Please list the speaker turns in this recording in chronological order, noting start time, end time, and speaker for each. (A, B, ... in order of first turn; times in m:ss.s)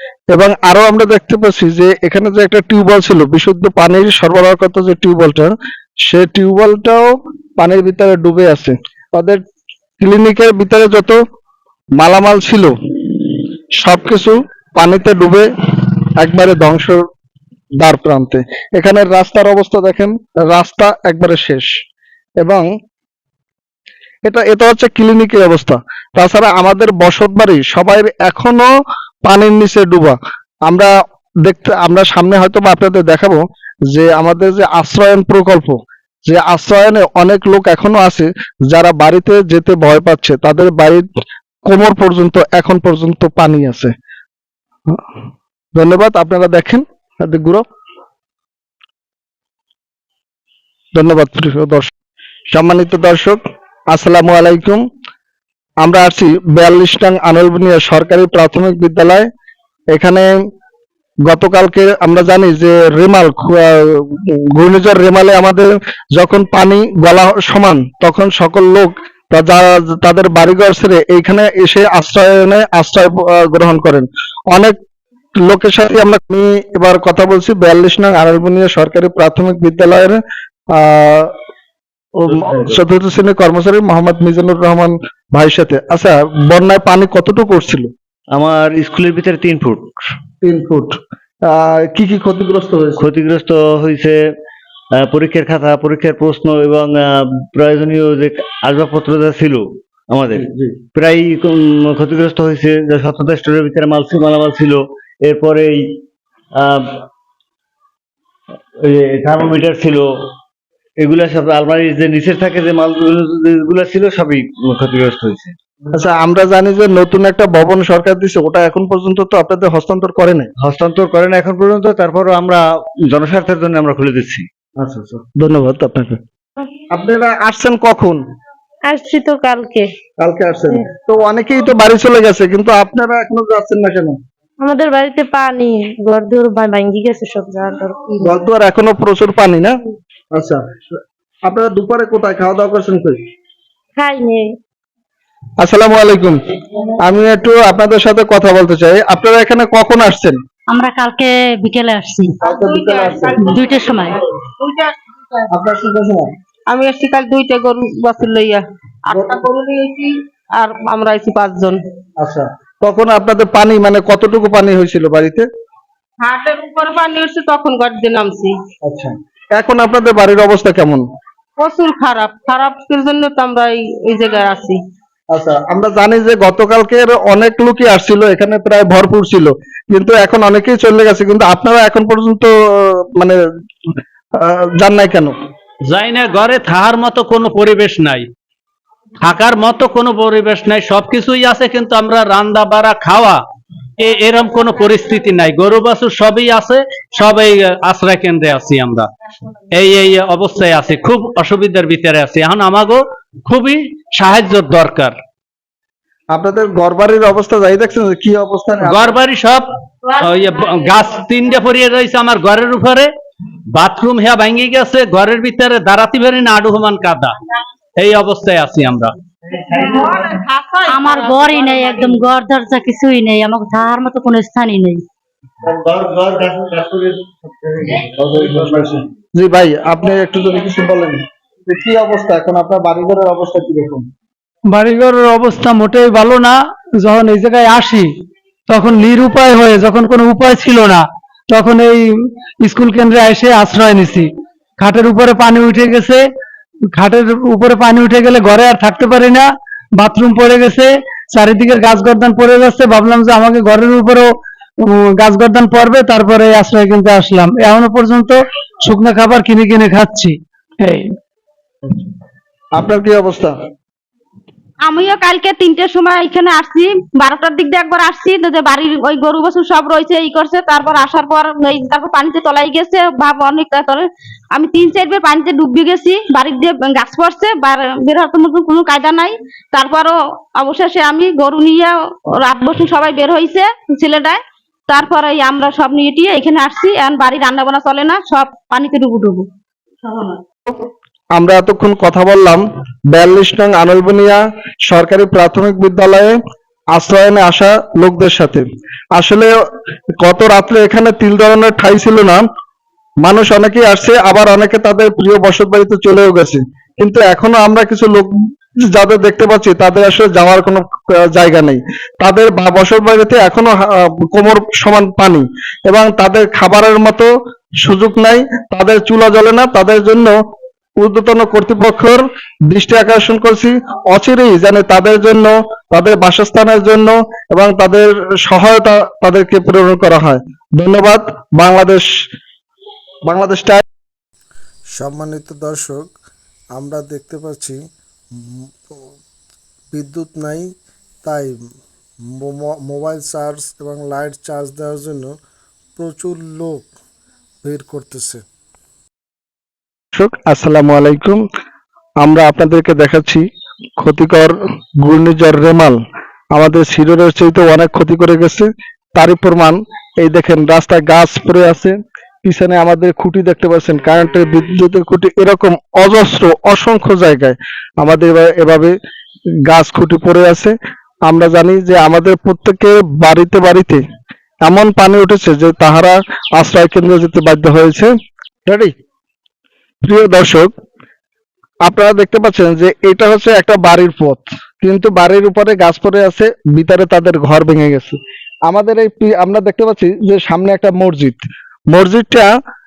0:00.3-0:05.5 A
0:06.1-0:09.4 A
0:10.0-0:11.2 A
0:12.0-0:12.7 A
0:13.8-0:15.5 A
0:16.2-0:17.0 A
0:17.8-0:21.7 A
0:24.2-0:28.7 A
0:29.2-0:30.9 A
0:31.4-0:41.0 A
0:41.7-0:43.9 A
0:45.8-0:47.6 A
0:50.9-0:51.9 A
0:52.5-0:53.4 A
0:53.9-0:54.8 A
0:55.8-0:59.3 A
0:59.9-1:00.3 A
1:01.3-1:14.8 A
1:15.4-1:20.2 A
1:20.8-1:21.3 A
1:22.2-1:22.8 B
1:22.3-1:27.9 A
1:28.3-1:29.9 B
1:30.4-1:33.0 A
1:33.0-1:34.2 B
1:35.0-1:46.0 B
1:40.4-1:40.8 A
1:46.6-1:47.1 B
1:48.8-1:50.1 B
1:51.0-1:55.6 B
1:56.0-2:00.5 A
2:00.6-2:04.5 B
2:04.8-2:06.2 A
2:06.9-2:08.2 A
2:08.9-2:09.9 C
2:10.2-2:14.2 A
2:14.6-2:18.0 C
2:18.2-2:19.8 A
2:20.3-2:20.7 A
2:21.5-2:23.2 A
2:24.0-2:24.5 C
2:25.6-2:26.4 A
2:27.0-2:30.4 A
2:30.7-2:32.4 D
2:32.4-2:33.4 A
2:32.4-2:35.4 E
2:33.4-2:34.2 D
2:35.5-2:36.3 A
2:36.7-2:41.8 E
2:42.2-2:45.5 A
2:46.2-2:48.6 E
2:48.8-2:51.0 A
2:51.6-2:54.8 E
2:55.3-3:03.4 A
3:04.4-3:05.3 A
3:05.9-3:08.3 F
3:09.2-3:13.4 F
3:14.0-3:19.1 F
3:19.7-3:25.2 F
3:26.3-3:29.1 A
3:28.8-3:33.1 F
3:33.7-3:37.3 F
3:38.0-3:39.1 F
3:39.5-3:40.2 B
3:39.8-3:42.3 E
3:40.9-3:45.0 D
3:45.6-3:48.9 B
3:48.2-3:54.0 A
3:54.7-3:58.1 G
3:58.7-4:02.1 G
4:02.6-4:06.2 G
4:06.9-4:14.3 G
4:14.8-4:21.2 G
4:22.8-4:23.6 A
4:24.8-4:49.5 H
4:51.4-4:56.4 A
4:56.9-4:59.5 A
5:00.2-5:02.4 A
5:03.2-5:08.3 A
5:08.9-5:20.4 A
5:21.0-5:32.1 A
5:33.3-5:33.8 A
5:34.9-5:36.1 I
5:36.7-5:37.8 I
5:38.3-5:38.9 I
5:39.9-5:41.6 I
5:42.2-5:45.4 I
5:46.0-5:46.9 I
5:47.6-5:48.4 I
5:50.1-5:51.4 A
5:52.2-5:53.4 A
5:54.0-5:56.0 A
5:56.5-6:09.0 A
6:09.7-6:10.7 A
6:11.3-6:14.0 A
6:14.6-6:18.1 A
6:18.7-6:18.9 A
6:20.0-6:20.7 A
6:21.8-6:32.5 A